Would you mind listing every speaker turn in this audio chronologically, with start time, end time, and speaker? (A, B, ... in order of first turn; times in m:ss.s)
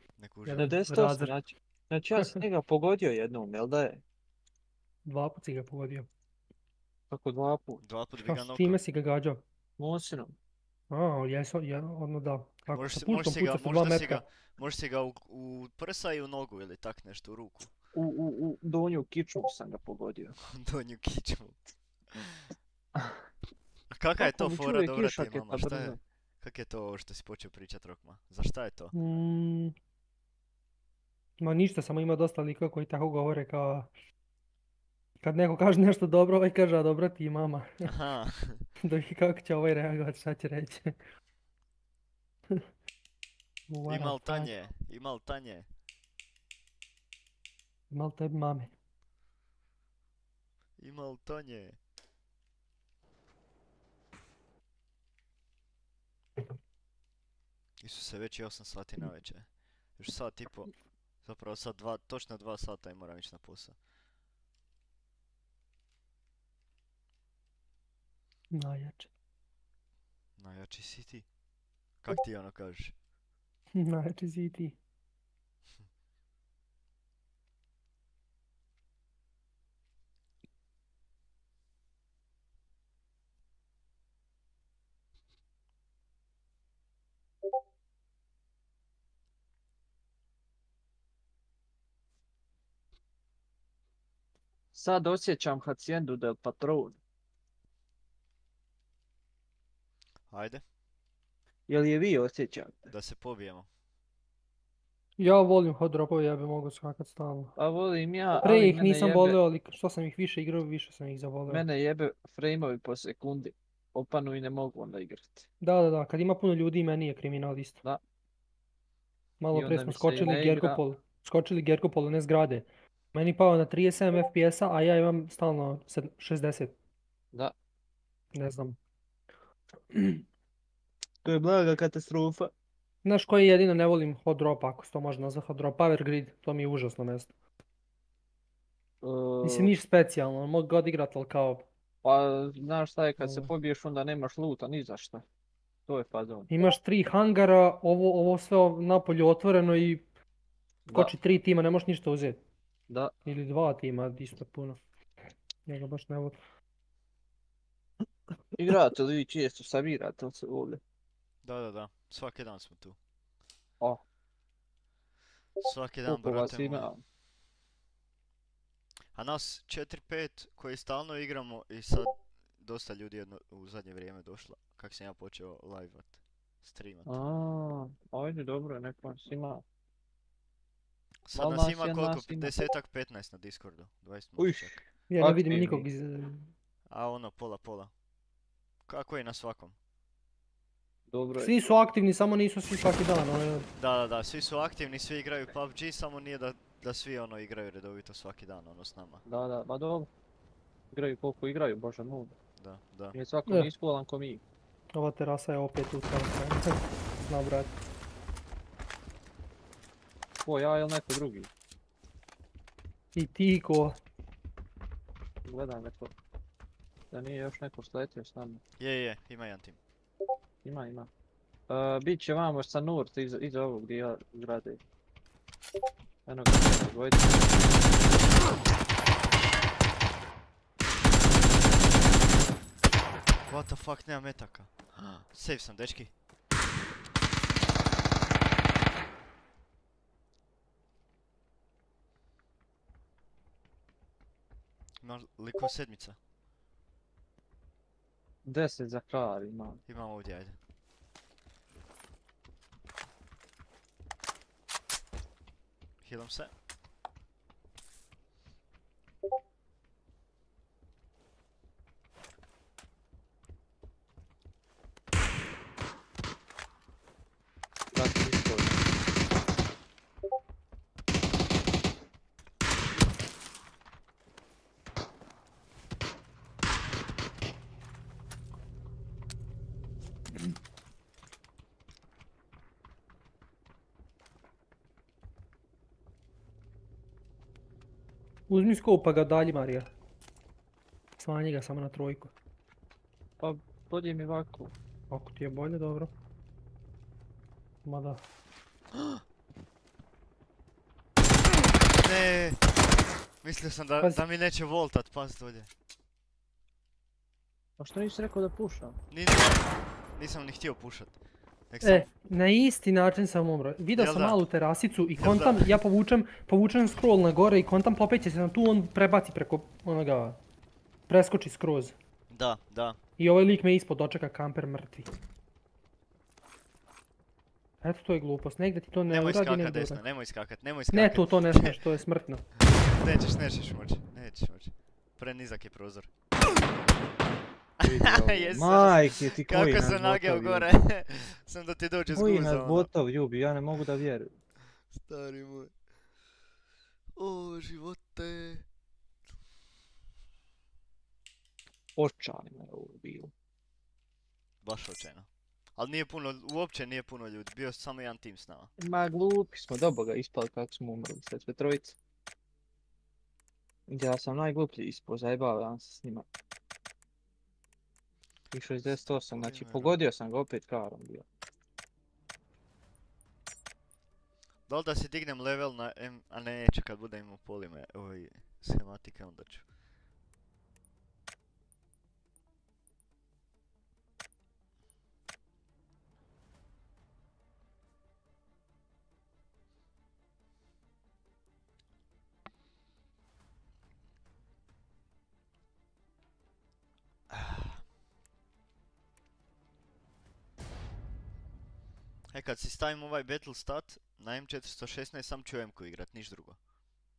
0:00.2-0:00.7 A
0:00.4-0:01.4 B
0:00.5-0:04.0 C
0:02.2-0:02.4 B
0:05.0-0:06.1 B
0:07.1-0:07.8 C
0:07.8-0:08.8 A
0:08.2-0:09.4 B
0:09.8-0:10.4 C
0:10.9-0:14.2 B
0:12.7-0:17.7 A
0:17.9-0:20.4 C
0:20.5-0:21.6 A
0:22.1-0:22.5 A
0:23.9-0:28.9 A
0:24.2-0:26.0 C
0:28.9-0:29.7 B
0:31.4-0:33.9 B
0:35.2-0:37.9 B
0:37.8-0:38.7 A
0:38.8-0:40.9 B
0:43.7-0:44.5 B
0:43.9-0:45.7 A
0:47.9-0:48.7 B
0:50.8-0:51.8 A
0:57.8-1:00.7 A
1:01.2-1:03.8 A
1:08.5-1:09.1 B
1:10.4-1:11.2 A
1:12.0-1:12.9 A
1:13.7-1:14.8 B
1:34.7-1:37.0 C
1:40.3-1:40.6 A
1:41.7-1:42.9 C
1:42.9-1:43.7 A
1:45.2-1:47.5 B
1:47.6-1:49.4 C
1:48.4-1:51.6 B
1:51.5-1:55.5 C
1:55.6-1:57.8 B
1:59.4-2:06.7 B
1:59.5-2:00.8 C
2:08.3-2:08.8 B
2:09.9-2:10.2 B
2:11.2-2:12.5 C
2:13.0-2:17.3 B
2:19.0-2:19.8 C
2:19.4-2:21.7 B
2:22.0-2:25.2 C
2:23.2-2:23.5 B
2:25.9-2:26.5 C
2:26.5-2:30.0 B
2:30.9-2:31.1 C
2:30.9-2:32.4 B
2:33.2-2:34.8 B
2:35.6-2:36.4 B
2:38.6-2:40.8 C
2:41.4-2:43.0 A
2:45.6-2:46.9 A
2:46.0-2:47.0 C
2:49.1-2:57.1 A
2:57.0-2:59.6 C
3:01.2-3:04.8 A
3:01.4-3:02.5 C
3:04.4-3:05.9 C
3:05.1-3:06.5 B
3:06.9-3:07.9 A
3:08.9-3:09.7 A
3:11.1-3:11.8 C
3:11.4-3:13.7 B
3:13.8-3:19.2 A
3:19.2-3:20.1 C
3:20.9-3:22.3 C
3:22.6-3:23.1 A
3:23.1-3:24.4 C
3:24.9-3:27.8 B
3:30.4-3:31.5 C
3:33.1-3:34.0 B
3:35.4-3:36.1 C
3:37.1-3:38.6 C
3:38.8-3:39.8 A
3:40.6-3:41.1 C
3:41.7-3:44.8 C
3:46.2-3:47.7 C
3:53.4-3:56.1 A
4:05.0-4:06.2 A
4:08.4-4:09.8 C
4:09.9-4:10.6 A
4:16.0-4:16.5 A
4:27.9-4:28.8 C
4:48.5-4:49.9 B
4:51.2-4:52.3 B
4:53.4-4:54.7 C
4:55.1-4:56.1 B
4:57.8-4:58.2 B
4:58.9-4:59.2 A
5:01.9-5:02.6 A
5:03.4-5:05.7 A
5:07.8-5:09.0 C
5:09.1-5:11.1 A
5:11.7-5:12.1 A
5:11.8-5:20.4 B
5:14.0-5:14.4 A
5:15.2-5:15.7 A
5:21.1-5:22.0 B
5:22.3-5:23.0 A
5:23.2-5:25.1 B
5:27.8-5:30.0 B
5:29.1-5:31.8 A
5:30.9-5:32.5 B
5:32.9-5:36.1 A
5:37.8-5:42.9 A
5:37.8-5:40.7 C
5:42.1-5:44.3 C
5:44.9-5:45.7 A
5:47.2-5:48.6 A
5:52.0-5:53.3 C
5:54.6-5:58.7 A
5:58.8-6:02.0 C
6:03.9-6:06.2 C
6:08.5-6:11.2 C
6:08.9-6:10.0 A
6:14.7-6:19.6 A
6:37.3-6:37.8 A
6:42.3-6:46.6 A